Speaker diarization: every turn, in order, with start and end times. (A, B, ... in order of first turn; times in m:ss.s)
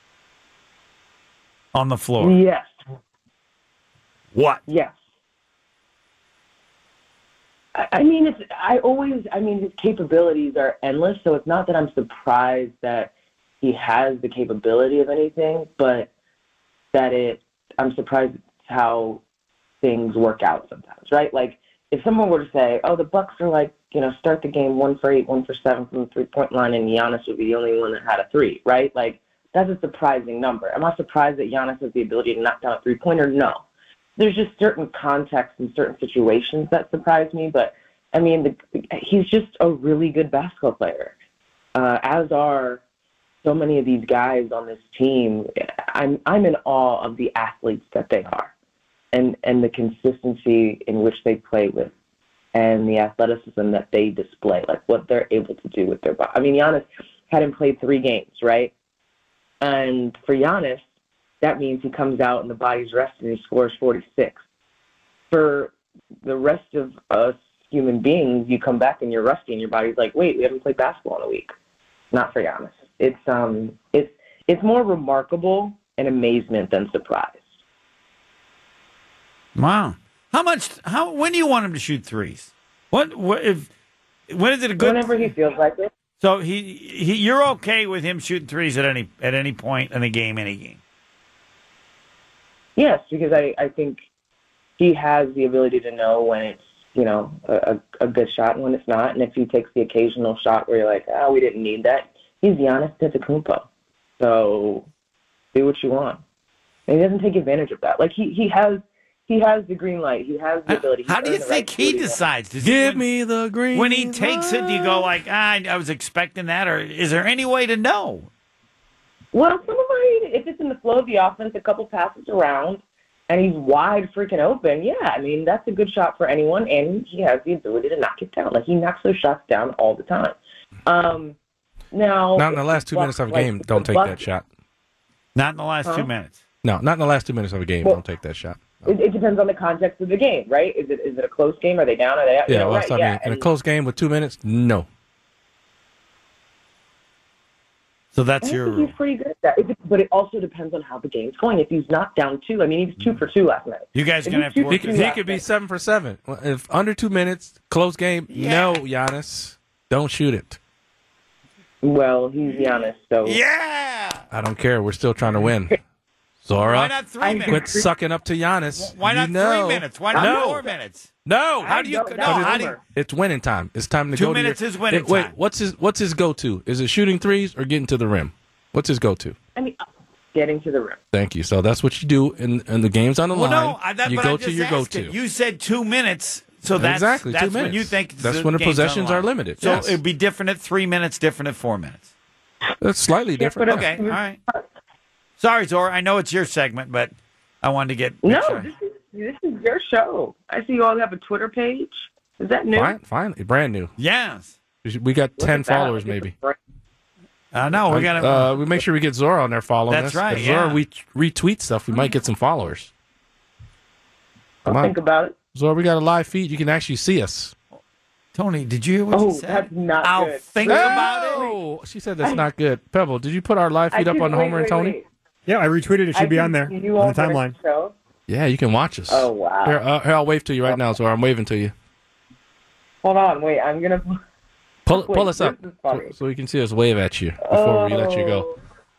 0:01.7-0:02.4 A
0:02.2-0:02.7 B
0:04.3-0:04.6 A
0:04.7-0:05.0 B
0:07.8-0:16.1 B
0:16.9-0:19.2 B
0:19.8-0:33.6 B
0:34.2-0:41.2 B
0:41.8-0:42.8 B
0:43.4-0:48.5 B
0:49.1-0:51.9 B
0:52.5-0:58.7 B
0:59.6-1:00.8 B
1:01.4-1:04.4 B
1:05.3-1:11.5 B
1:12.1-1:17.4 B
1:19.6-1:23.7 A
1:24.3-1:25.2 A
1:24.8-1:25.9 B
1:26.2-1:30.8 A
1:32.8-1:34.0 B
1:34.8-1:43.7 B
1:44.2-1:44.9 B
1:45.5-1:46.2 B
1:46.9-1:52.2 B
1:50.7-1:53.1 A
1:52.6-1:55.1 C
1:53.7-1:58.3 A
1:59.3-2:11.4 B
2:11.9-2:14.2 B
2:12.4-2:14.4 C
2:15.4-2:16.4 A
2:15.8-2:16.1 B
2:16.6-2:18.9 C
2:18.9-2:23.5 B
2:22.5-2:24.9 C
2:28.1-2:28.9 A
2:28.4-2:35.4 B
2:34.0-2:35.2 A
2:34.7-2:40.6 C
2:38.3-2:38.8 A
2:41.8-2:43.4 B
2:43.2-2:44.2 A
2:44.3-2:45.8 C
2:46.4-2:47.0 C
2:46.6-2:47.6 A
2:47.2-2:47.9 B
2:47.5-2:50.6 C
2:48.8-2:51.1 A
2:50.1-2:50.7 B
2:51.2-2:59.4 C
2:51.6-2:52.8 B
2:51.6-2:52.8 A
2:54.1-2:55.3 A
3:00.3-3:01.0 B
3:01.1-3:05.2 C
3:03.3-3:12.0 A
3:06.8-3:10.0 C
3:12.8-3:13.9 C
3:13.3-3:14.6 B
3:13.7-3:14.4 A
3:15.4-3:18.7 A
3:18.2-3:23.0 B
3:22.7-3:23.9 C
3:24.0-3:24.6 A
3:24.8-3:26.3 C
3:25.4-3:26.6 B
3:27.5-3:28.5 A
3:27.8-3:32.9 C
3:29.9-3:30.8 A
3:34.6-3:35.4 B
3:34.7-3:34.9 C
3:35.6-3:37.5 C
3:38.4-3:41.5 A
3:39.1-3:41.6 B
3:40.6-3:45.0 C
3:43.9-3:45.1 B
3:45.5-3:47.6 D
3:46.1-3:48.0 B
3:48.3-3:51.7 C
3:49.1-3:49.8 B
3:53.0-3:54.2 B
3:54.9-3:58.5 C
3:54.9-3:56.2 B
3:57.4-3:58.6 B